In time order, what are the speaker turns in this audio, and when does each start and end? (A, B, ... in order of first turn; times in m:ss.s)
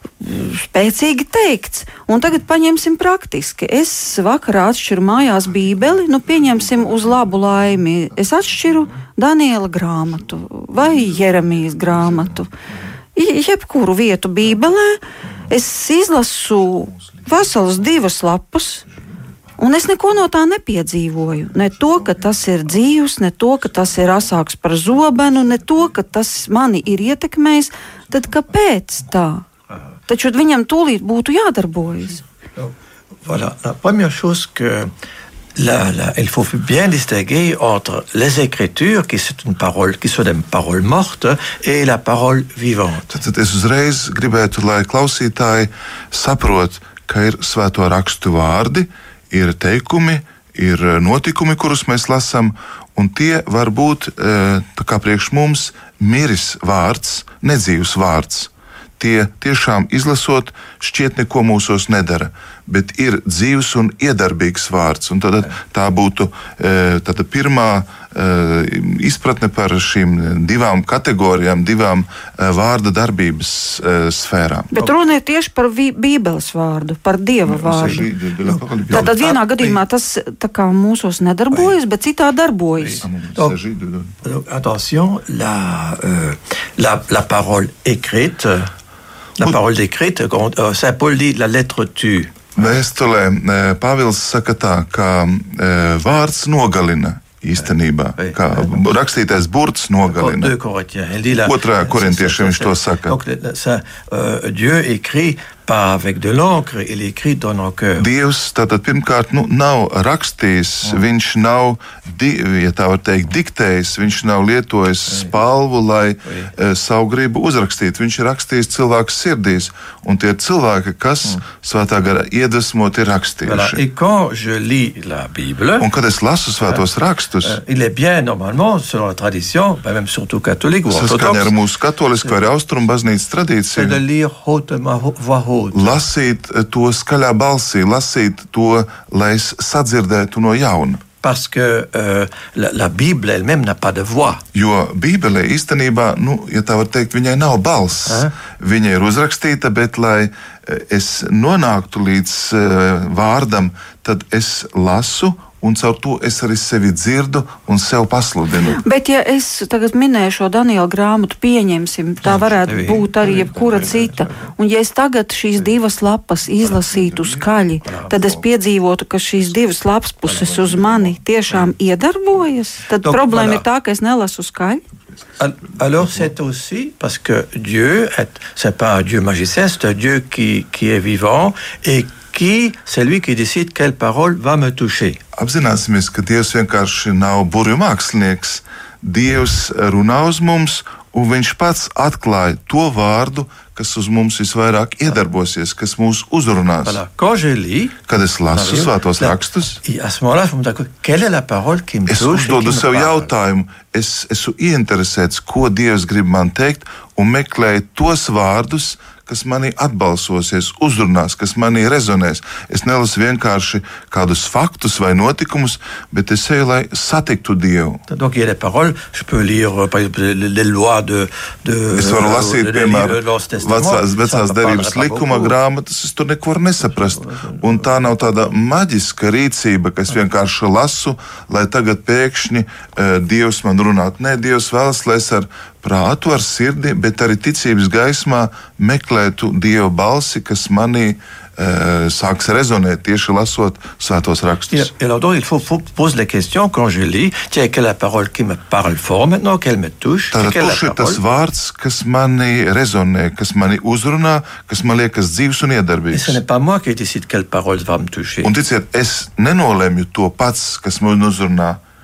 0:00.2-0:12.5 A
0:13.2-0:18.8 A
0:19.6-0:29.4 A
0:30.1-0:32.2 A
0:33.2-0:34.9 B
0:35.6-0:43.1 B
0:43.1-1:14.7 C
1:14.7-1:18.1 A
1:17.4-1:19.5 C
1:18.9-1:23.0 A
1:22.8-1:23.6 B
1:23.0-1:24.1 C
1:24.2-1:28.7 B
1:29.4-1:32.6 B
1:32.6-1:40.5 C
1:38.2-1:38.8 B
1:40.0-1:48.1 B
1:41.4-1:43.1 C
1:48.0-2:03.8 C
2:03.4-2:05.9 B
2:05.8-2:07.6 C
2:07.4-2:11.5 B
2:10.9-2:14.0 C
2:13.7-2:16.0 B
2:15.7-2:21.0 C
2:21.2-2:24.4 B
2:24.5-2:38.8 C
2:28.1-2:28.3 B
2:38.7-2:54.8 A
2:42.3-2:43.1 B
2:43.2-2:44.5 C
2:46.7-2:47.4 C
2:47.8-2:48.1 B
2:50.4-2:51.1 C
2:53.0-2:53.6 B
2:55.4-3:05.2 B
3:05.3-3:17.0 C
3:16.8-3:18.0 B
3:18.1-3:19.8 C
3:18.5-3:23.3 B
3:22.1-3:38.0 C
3:38.1-3:45.5 B
3:41.9-4:04.9 C
3:46.9-3:47.9 B
4:04.7-4:11.2 B
4:10.3-4:16.4 C
4:16.1-4:18.5 B
4:18.4-4:21.8 C